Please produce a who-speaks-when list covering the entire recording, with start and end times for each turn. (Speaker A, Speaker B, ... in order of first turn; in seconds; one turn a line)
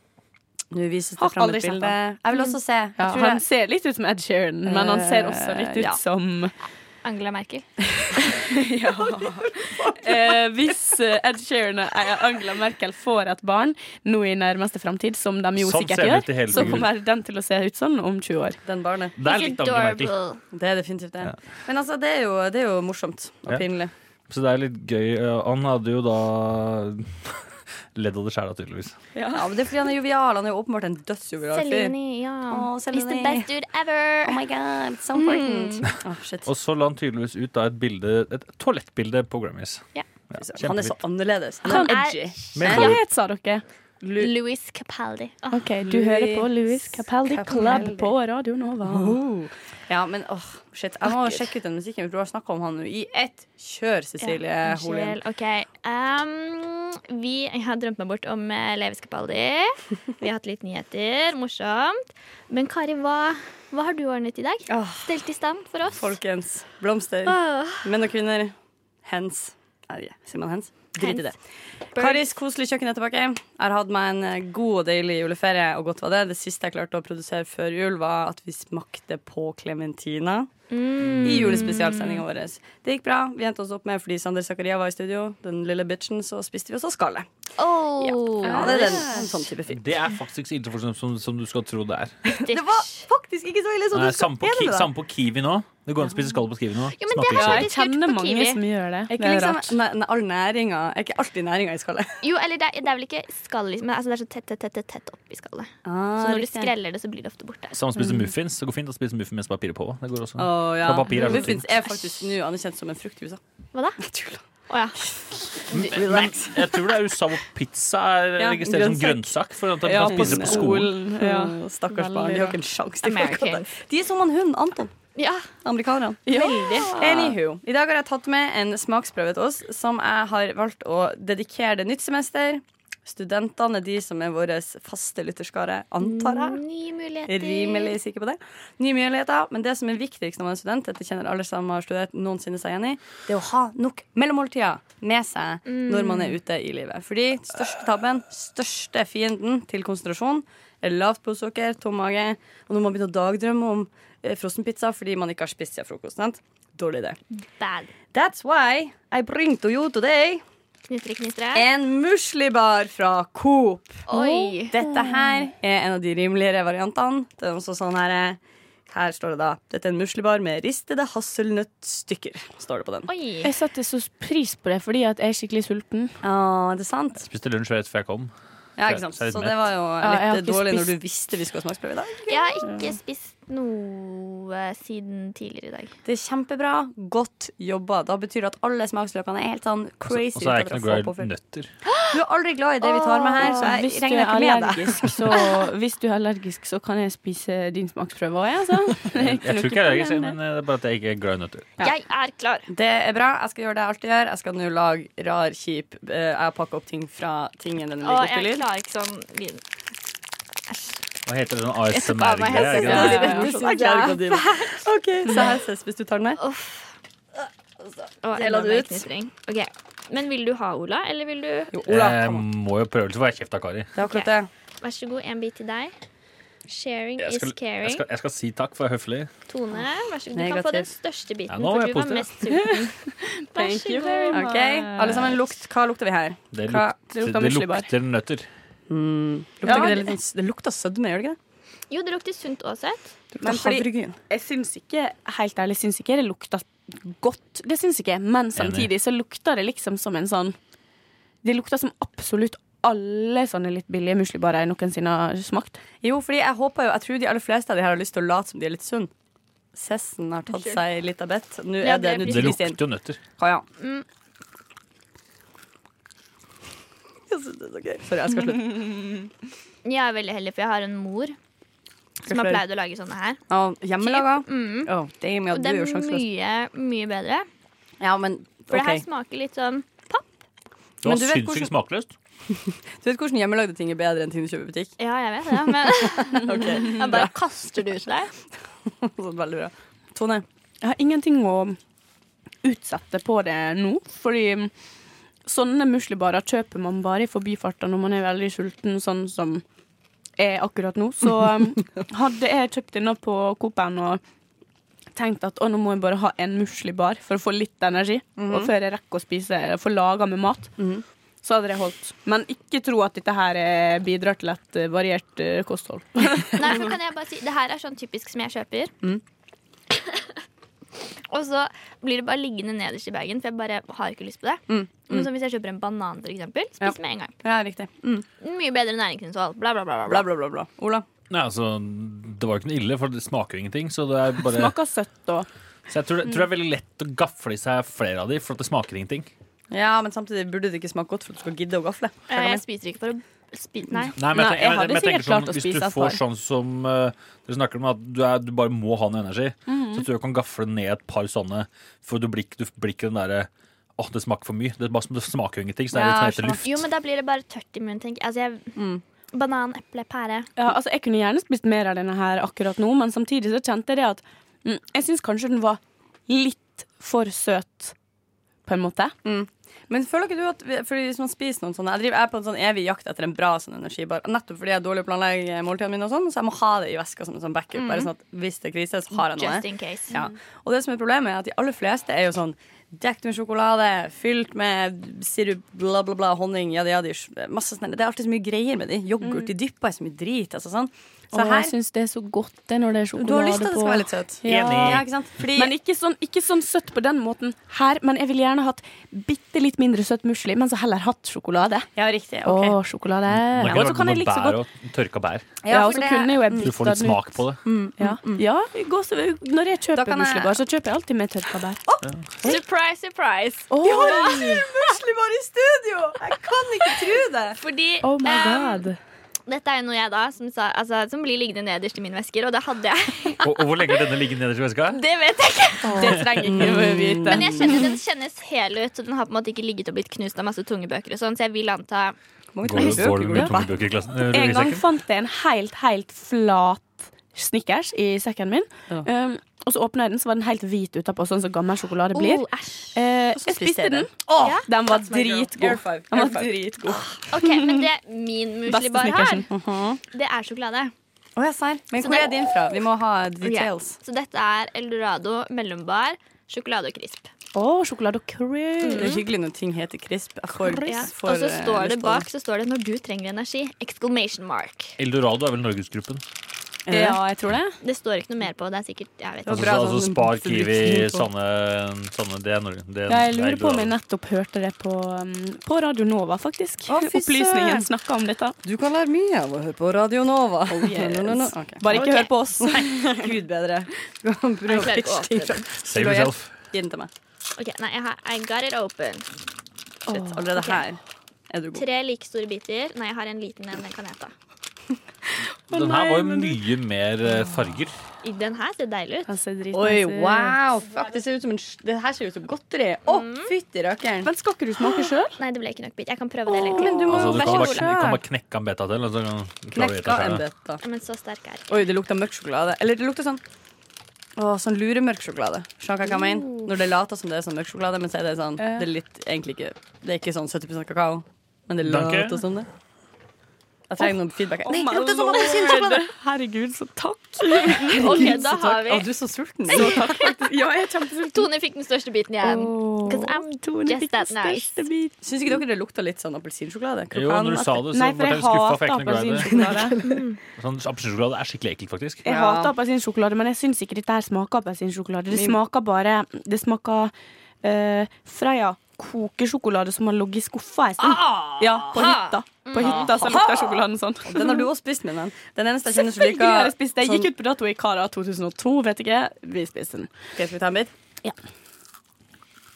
Speaker A: 0.7-3.4
Speaker B: 1.2-2.0
Speaker B: 3.0-6.5
Speaker A: 4.7-6.0
Speaker C: 7.0-7.7
Speaker B: 8.2-18.6
Speaker A: 8.9-10.3
Speaker D: 15.6-16.9
Speaker A: 16.6-16.8
Speaker A: 18.6-19.1
Speaker D: 19.2-20.1
Speaker C: 19.2-20.4
Speaker A: 20.5-23.9
Speaker D: 24.3-28.9
Speaker A: 29.3-31.9
Speaker C: 31.5-34.4
Speaker A: 32.5-33.5
Speaker A: 34.2-36.5
Speaker C: 35.2-35.9
Speaker D: 36.5-41.0
Speaker A: 40.4-42.9
Speaker C: 41.7-42.9
Speaker B: 41.7-43.6
Speaker D: 42.6-43.0
Speaker A: 44.0-44.3
Speaker C: 44.2-45.7
Speaker B: 45.5-49.2
Speaker A: 45.8-48.1
Speaker A: 48.8-55.2
Speaker C: 54.2-66.2
Speaker A: 64.7-65.2
Speaker A: 65.9-71.4
Speaker C: 67.2-67.9
Speaker C: 71.0-71.3
Speaker C: 72.0-72.3
Speaker A: 72.0-80.5
Speaker C: 80.7-82.2
Speaker A: 81.2-87.3
Speaker C: 87.6-89.0
Speaker A: 88.0-89.9
Speaker B: 88.4-89.3
Speaker D: 89.7-92.2
Speaker C: 92.3-93.1
Speaker A: 92.4-94.9
Speaker D: 93.9-97.7
Speaker C: 97.0-98.6
Speaker B: 97.3-99.8
Speaker A: 99.1-102.2
Speaker C: 102.2-107.8
Speaker A: 105.8-106.7
Speaker D: 107.7-111.7
Speaker A: 110.4-113.4
Speaker A: 114.0-114.4
Speaker C: 114.7-115.0
Speaker A: 115.0-117.0
Speaker D: 115.7-120.9
Speaker A: 118.4-124.9
Speaker B: 119.9-122.6
Speaker C: 123.0-123.7
Speaker C: 125.2-125.5
Speaker A: 125.6-136.6
Speaker B: 126.3-127.2
Speaker C: 126.3-127.3
Speaker C: 136.0-138.0
Speaker A: 137.3-157.2
Speaker C: 145.7-146.4
Speaker C: 157.6-157.9
Speaker A: 158.1-160.4
Speaker C: 160.9-161.7
Speaker A: 161.5-164.1
Speaker C: 164.1-164.8
Speaker B: 164.1-165.5
Speaker A: 164.7-173.1
Speaker C: 173.1-173.5
Speaker B: 173.4-176.2
Speaker A: 176.2-177.2
Speaker D: 177.2-178.3
Speaker A: 178.8-182.5
Speaker D: 178.8-179.6
Speaker B: 180.0-180.9
Speaker C: 182.3-185.9
Speaker A: 186.1-191.3
Speaker D: 190.1-191.7
Speaker C: 191.9-192.2
Speaker A: 192.1-195.4
Speaker C: 192.8-193.7
Speaker B: 193.4-200.4
Speaker D: 199.1-201.7
Speaker C: 201.8-202.7
Speaker A: 202.7-208.6
Speaker C: 208.0-209.6
Speaker D: 211.2-213.4
Speaker C: 211.9-215.4
Speaker A: 212.5-216.4
Speaker B: 212.9-213.5
Speaker C: 216.4-216.9
Speaker A: 217.4-219.1
Speaker C: 218.2-221.7
Speaker A: 221.7-222.5
Speaker D: 221.9-223.9
Speaker A: 223.9-224.5
Speaker C: 224.0-224.3
Speaker C: 224.8-225.9
Speaker C: 226.7-228.1
Speaker D: 227.2-229.3
Speaker C: 229.5-233.0
Speaker A: 230.3-230.9
Speaker D: 231.5-232.3
Speaker B: 232.5-235.3
Speaker C: 233.5-234.4
Speaker A: 234.3-237.0
Speaker D: 236.5-238.5
Speaker B: 237.1-237.9
Speaker A: 238.9-241.4
Speaker B: 239.6-240.1
Speaker C: 241.9-243.1
Speaker A: 243.3-244.2
Speaker B: 243.4-250.6
Speaker D: 248.6-248.9
Speaker B: 251.4-255.8
Speaker A: 256.0-259.1
Speaker A: 259.7-262.8
Speaker C: 260.5-260.8
Speaker C: 261.8-262.6
Speaker D: 262.2-263.2
Speaker A: 263.4-263.6
Speaker C: 263.8-264.1
Speaker A: 267.3-269.1
Speaker C: 269.9-271.4
Speaker C: 272.2-273.4
Speaker A: 272.3-272.6
Speaker A: 273.5-276.2
Speaker C: 274.0-274.9
Speaker C: 275.5-277.5
Speaker A: 278.0-279.1
Speaker C: 278.7-280.2
Speaker A: 281.0-281.7
Speaker D: 281.0-282.1
Speaker A: 282.5-284.9
Speaker C: 285.0-288.3
Speaker A: 285.7-287.3
Speaker A: 288.9-290.4
Speaker B: 290.8-291.8
Speaker B: 292.6-294.7
Speaker B: 295.4-299.6
Speaker B: 300.4-304.2
Speaker B: 305.2-310.8
Speaker A: 308.4-308.7
Speaker A: 310.8-311.0
Speaker B: 311.4-316.7
Speaker C: 316.6-318.9
Speaker C: 321.3-327.4
Speaker A: 324.7-325.3
Speaker A: 326.8-328.3
Speaker C: 328.4-330.3
Speaker A: 330.1-331.1
Speaker D: 331.3-334.8
Speaker B: 334.4-335.5
Speaker D: 335.9-339.3
Speaker A: 339.7-342.6
Speaker C: 342.3-344.2
Speaker D: 344.2-356.8
Speaker B: 344.3-346.2
Speaker B: 349.7-350.1
Speaker A: 355.9-356.6
Speaker C: 356.6-358.8
Speaker A: 358.8-359.0
Speaker C: 359.3-360.5
Speaker B: 360.6-367.9
Speaker B: 368.7-369.1
Speaker A: 369.2-391.7
Speaker C: 377.8-378.1
Speaker C: 379.1-380.2
Speaker B: 389.2-389.5
Speaker B: 391.3-401.9
Speaker A: 393.2-395.7
Speaker D: 394.5-395.0
Speaker A: 402.0-402.8
Speaker B: 402.4-404.6
Speaker D: 403.3-405.5
Speaker A: 403.6-403.9
Speaker A: 405.6-406.7
Speaker B: 405.7-407.4
Speaker D: 406.6-407.6
Speaker A: 407.6-408.5
Speaker B: 408.0-411.8
Speaker A: 409.9-410.6
Speaker C: 412.4-414.4
Speaker B: 413.7-414.6
Speaker A: 413.8-417.6
Speaker C: 417.6-418.9
Speaker B: 418.0-419.0
Speaker C: 419.5-423.5
Speaker D: 423.4-425.0
Speaker C: 424.9-426.2
Speaker B: 425.8-427.8
Speaker A: 425.9-427.8
Speaker C: 427.3-432.1
Speaker A: 432.5-433.7
Speaker D: 432.6-434.8
Speaker B: 434.2-444.1
Speaker C: 442.1-443.0
Speaker A: 443.3-447.1
Speaker C: 444.4-444.7
Speaker B: 444.7-447.8
Speaker C: 447.3-449.5
Speaker B: 448.7-449.5
Speaker A: 449.5-450.0
Speaker C: 450.1-450.9
Speaker A: 451.4-454.0
Speaker C: 452.0-452.5
Speaker C: 453.4-457.3
Speaker B: 457.6-459.2
Speaker C: 458.8-459.2
Speaker A: 458.9-462.3
Speaker C: 460.9-465.0
Speaker D: 465.0-466.2
Speaker A: 466.9-467.2
Speaker B: 466.9-467.8
Speaker C: 467.8-469.8
Speaker A: 469.4-471.3
Speaker D: 469.5-473.9
Speaker B: 473.1-478.6
Speaker A: 476.9-477.9
Speaker A: 478.6-487.1
Speaker B: 480.7-483.2
Speaker C: 481.9-482.3
Speaker C: 484.7-485.6
Speaker D: 485.9-486.5
Speaker C: 487.6-489.3
Speaker B: 490.1-490.4
Speaker A: 490.1-491.9
Speaker C: 490.5-490.9
Speaker C: 491.8-494.3
Speaker D: 495.7-498.0
Speaker B: 495.7-496.6
Speaker C: 498.2-499.4
Speaker B: 499.3-500.6
Speaker A: 499.7-504.3
Speaker C: 503.1-503.5
Speaker B: 504.2-505.4
Speaker C: 505.4-507.9
Speaker A: 506.5-508.2
Speaker B: 506.6-507.1
Speaker D: 507.1-510.4
Speaker A: 509.7-510.8
Speaker C: 510.8-511.8
Speaker A: 511.7-513.4
Speaker A: 514.4-522.7
Speaker B: 518.6-518.9
Speaker D: 521.8-522.4
Speaker A: 523.9-526.1
Speaker B: 524.6-528.4
Speaker A: 527.6-530.4
Speaker C: 528.0-529.1
Speaker C: 529.7-530.3
Speaker B: 529.7-531.5
Speaker C: 531.3-534.8
Speaker B: 532.4-535.2
Speaker A: 535.2-537.8
Speaker D: 537.1-539.5
Speaker B: 537.9-540.0
Speaker A: 539.4-540.2
Speaker C: 540.0-540.4
Speaker D: 540.6-542.2
Speaker B: 542.2-547.1
Speaker A: 542.2-542.7
Speaker A: 545.3-545.6
Speaker B: 547.6-554.7
Speaker A: 551.0-557.3
Speaker C: 552.7-553.3
Speaker B: 555.9-560.1
Speaker A: 560.4-560.9